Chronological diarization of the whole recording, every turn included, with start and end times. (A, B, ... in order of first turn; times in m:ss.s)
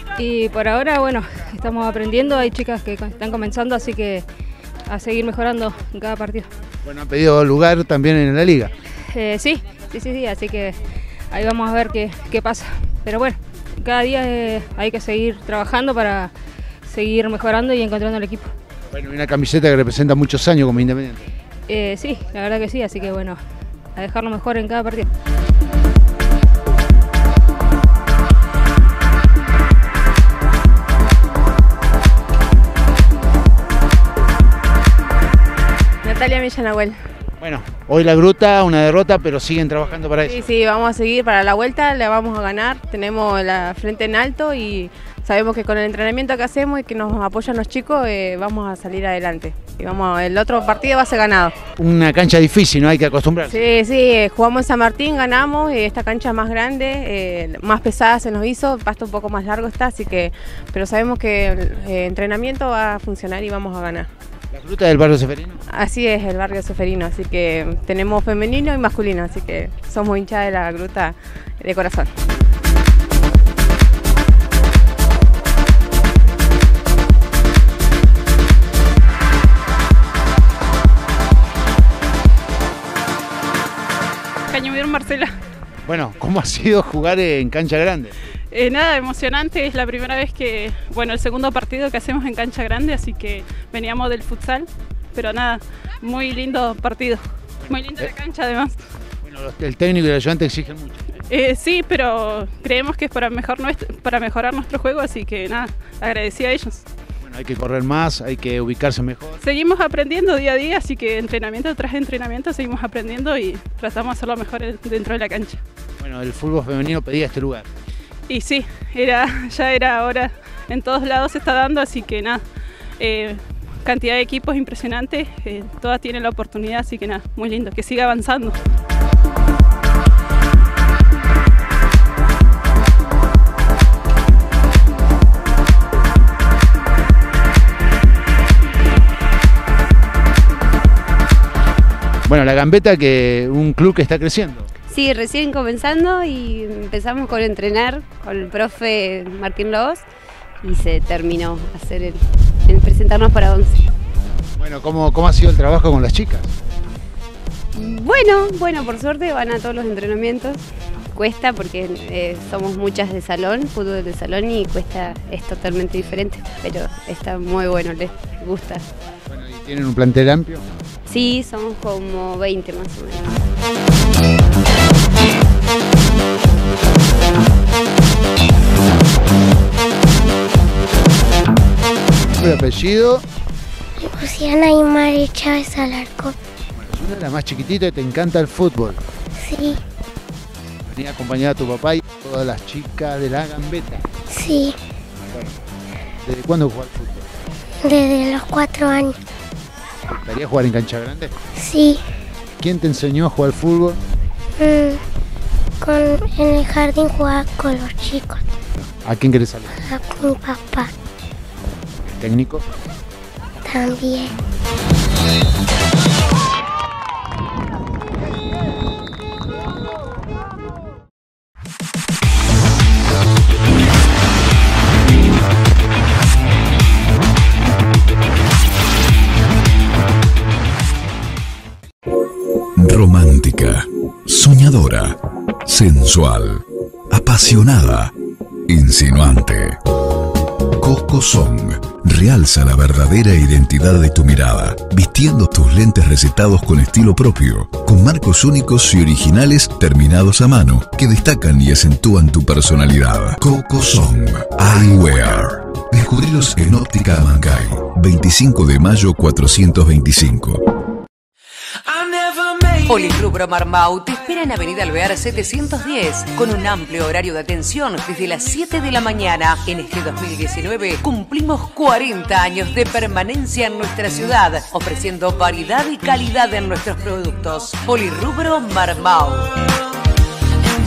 0:00.2-0:04.3 A
0:04.9-0:06.5 A
0:06.8-0:08.7 B
0:09.1-0:16.3 A
0:16.8-0:18.5 A
0:18.9-0:21.2 B
0:21.7-0:23.4 A
0:24.0-0:25.1 A
0:36.0-0:37.0 C
0:37.4-0:40.5 B
0:40.2-0:51.6 C
0:51.8-0:53.8 B
0:53.5-1:04.1 C
1:04.5-1:05.6 B
1:05.7-1:12.1 C
1:24.5-1:25.3 D
1:25.9-1:28.1 B
1:28.5-1:38.8 D
1:37.7-1:38.1 B
1:39.2-1:41.0 B
1:41.3-1:46.8 D
1:47.2-1:49.4 B
1:49.4-1:55.6 D
1:56.0-1:57.7 B
1:58.3-2:02.4 D
2:03.0-2:08.6 D
2:22.3-2:24.7 B
2:24.9-2:30.1 E
2:30.6-2:33.9 E
2:34.6-2:36.5 B
2:37.7-2:48.9 E
2:49.3-2:50.6 B
2:51.1-2:53.4 E
3:02.4-3:03.2 B
3:04.0-3:06.4 F
3:06.8-3:09.0 B
3:09.4-3:09.8 F
3:10.9-3:14.1 B
3:14.3-3:14.8 F
3:15.3-3:15.6 B
3:16.2-3:17.3 B
3:17.8-3:19.2 F
3:20.1-3:21.4 B
3:21.6-3:22.0 F
3:22.6-3:24.0 B
3:24.6-3:25.0 F
3:25.8-3:28.4 F
3:29.0-3:29.9 B
3:29.8-3:30.9 F
3:32.0-3:32.6 B
3:33.6-3:34.4 F
3:52.8-3:58.1 G
3:58.7-3:59.8 G
4:00.8-4:20.6 G
4:22.6-4:39.5 H